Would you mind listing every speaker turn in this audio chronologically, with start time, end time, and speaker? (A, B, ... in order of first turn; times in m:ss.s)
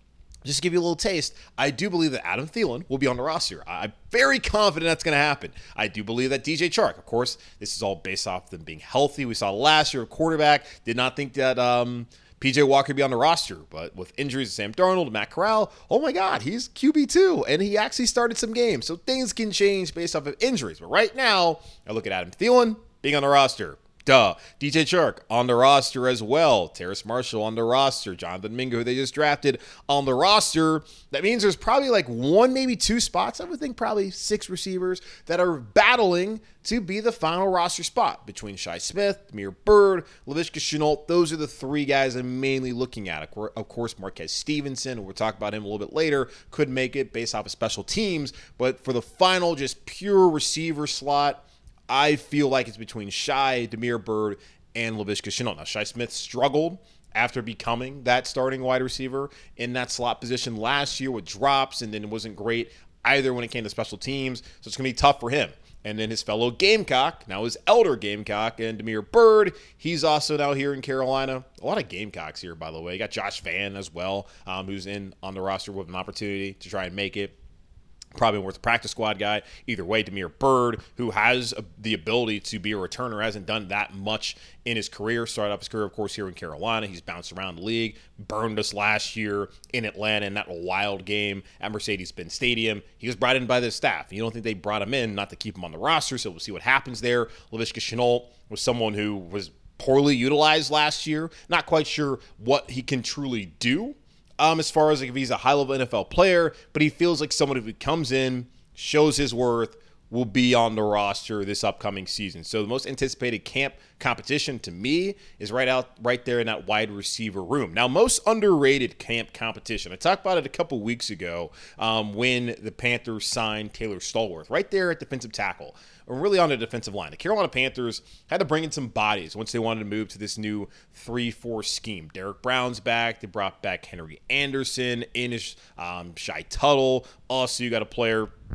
0:00.4-1:17.3 A
1:18.1-2:18.3 A